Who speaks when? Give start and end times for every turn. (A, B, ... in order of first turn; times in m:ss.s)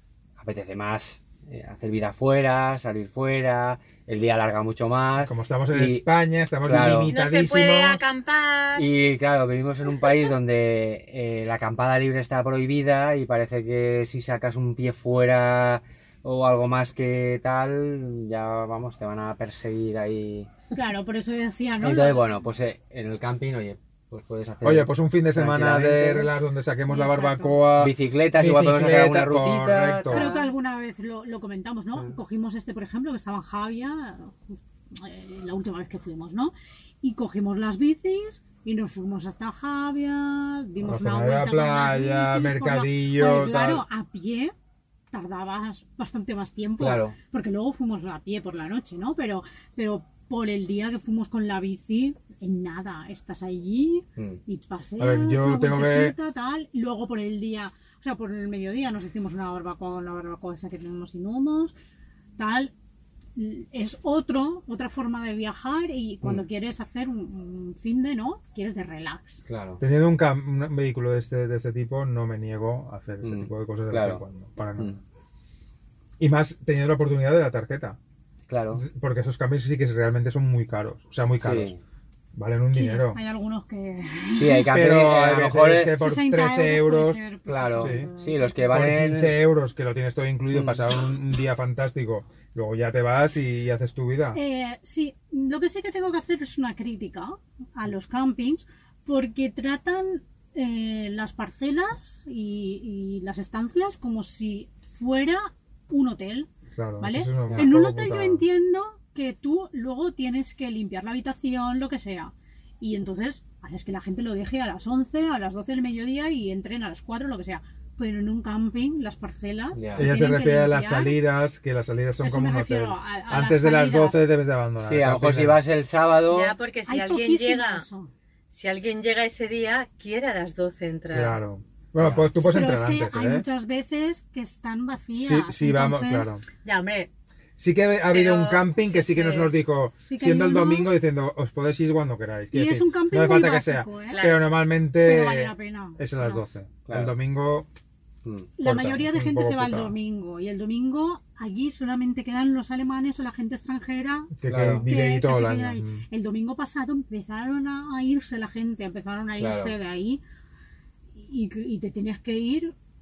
0:00.4-0:06.0 A
0:05.2-0:08.0 B
0:06.6-0:07.1 A
0:07.1-0:08.8 C
0:08.8-0:20.5 A
0:20.7-0:22.3 D
0:21.8-0:26.3 A
0:24.6-0:30.3 B
0:26.9-0:27.6 D
0:27.8-0:30.4 A
0:30.1-0:44.5 D
0:40.8-0:43.8 B
0:45.1-1:01.7 D
0:46.8-0:47.2 A
0:55.0-0:56.1 B
1:02.4-1:02.7 D
1:03.4-1:09.4 D
1:09.4-1:09.8 A
1:09.8-1:15.0 B
1:13.2-1:14.2 A
1:16.2-1:18.0 B
1:18.5-1:18.8 A
1:18.7-1:21.7 B
1:21.4-1:21.8 A
1:22.3-1:23.2 B
1:22.7-1:24.8 D
1:24.3-1:26.0 A
1:24.7-1:27.2 B
1:26.0-1:28.7 D
1:27.4-1:29.4 A
1:27.8-1:28.1 B
1:28.7-1:34.4 B
1:30.5-1:30.8 A
1:34.3-2:01.2 D
1:46.7-1:48.4 B
1:59.7-2:00.1 A
2:00.0-2:05.6 B
2:02.2-2:04.2 D
2:04.8-2:06.6 A
2:06.3-2:07.8 C
2:06.8-2:08.1 D
2:08.5-2:11.4 C
2:11.1-2:13.4 B
2:12.0-2:12.3 A
2:12.3-2:16.3 D
2:15.2-2:16.4 B
2:16.6-2:17.1 C
2:17.6-2:27.7 B
2:18.1-2:19.5 C
2:20.0-2:20.9 D
2:22.5-2:24.3 D
2:24.1-2:24.4 C
2:25.0-2:26.5 D
2:26.8-2:27.1 A
2:28.2-2:28.5 A
2:28.6-2:40.2 D
2:28.6-2:29.9 B
2:34.4-2:36.0 B
2:34.4-2:34.9 A
2:39.4-2:39.7 A
2:41.2-2:42.7 D